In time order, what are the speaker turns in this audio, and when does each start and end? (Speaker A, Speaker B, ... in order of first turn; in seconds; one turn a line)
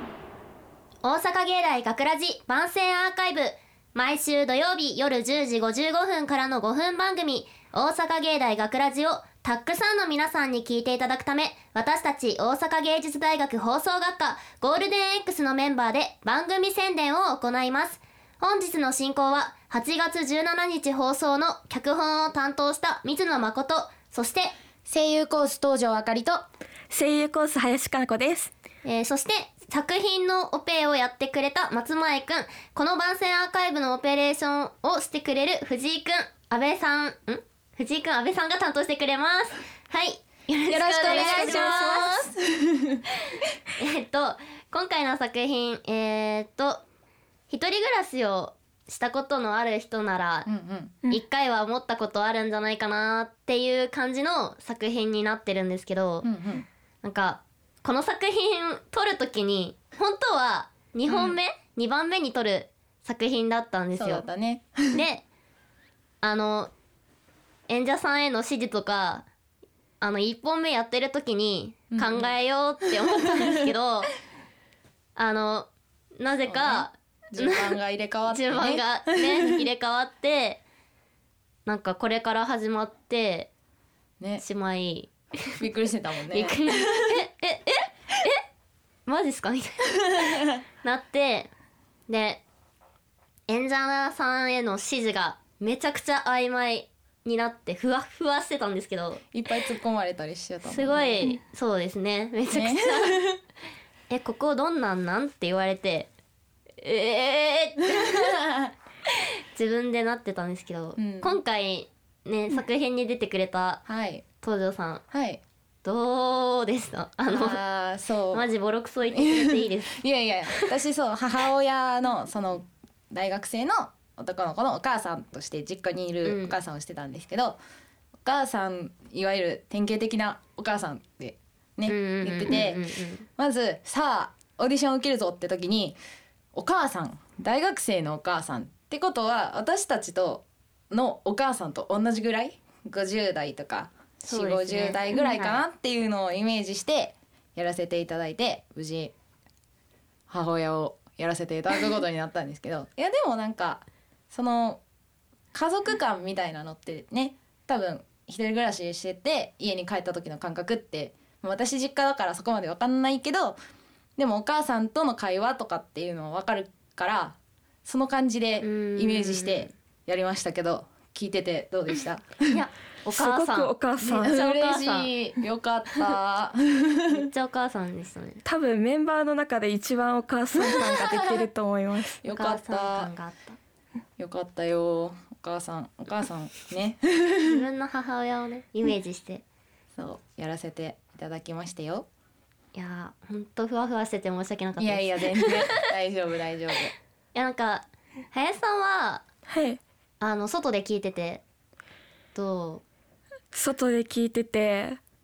Speaker A: 1.0-24.6
Speaker B: 24.9-26.4
Speaker C: 26.9-28.5
Speaker A: 28.9-42.3
Speaker B: 40.7-43.0
Speaker A: 43.8-46.8
Speaker A: 47.5-50.5
Speaker B: 50.5-51.0
Speaker A: 51.1-56.3
Speaker B: 56.2-56.6
Speaker A: 57.0-64.3
Speaker B: 61.1-61.4
Speaker B: 64.0-65.0
Speaker A: 64.9-65.2
Speaker A: 66.2-66.7
Speaker A: 67.7-69.3
Speaker A: 70.0-74.1
Speaker B: 71.9-72.3
Speaker A: 75.2-77.7
Speaker B: 76.5-79.6
Speaker A: 78.3-80.6
Speaker A: 81.7-83.5
Speaker A: 84.4-85.5
Speaker B: 85.6-86.5
Speaker A: 86.3-88.4
Speaker A: 89.1-91.5
Speaker A: 92.1-92.4
Speaker A: 93.5-99.2
Speaker B: 99.3-101.3
Speaker A: 100.7-103.3
Speaker B: 102.5-103.1
Speaker A: 104.1-106.1
Speaker A: 106.8-108.5
Speaker A: 109.5-113.8
Speaker B: 111.0-111.4
Speaker B: 113.9-114.2
Speaker A: 114.4-115.0
Speaker B: 115.1-115.4
Speaker A: 115.8-117.6
Speaker B: 117.3-118.5
Speaker A: 118.3-120.0
Speaker B: 119.2-127.6
Speaker A: 126.2-126.5
Speaker B: 128.2-132.8
Speaker A: 131.9-133.3
Speaker B: 133.4-136.0
Speaker B: 136.5-149.1
Speaker A: 144.3-145.6
Speaker B: 150.3-154.8
Speaker B: 155.5-163.6
Speaker B: 164.2-172.6
Speaker A: 168.6-169.7
Speaker A: 172.5-175.4
Speaker C: 173.1-174.4
Speaker B: 174.2-177.3
Speaker A: 177.1-178.4
Speaker C: 178.4-182.2
Speaker A: 180.6-181.4
Speaker B: 182.2-183.1
Speaker A: 182.3-183.6
Speaker B: 184.2-187.6
Speaker A: 187.4-189.4
Speaker B: 190.0-192.1
Speaker A: 192.7-195.8
Speaker B: 194.8-196.9
Speaker A: 197.3-199.2
Speaker C: 199.5-199.8
Speaker A: 200.2-201.4
Speaker A: 202.3-202.8
Speaker C: 203.5-205.0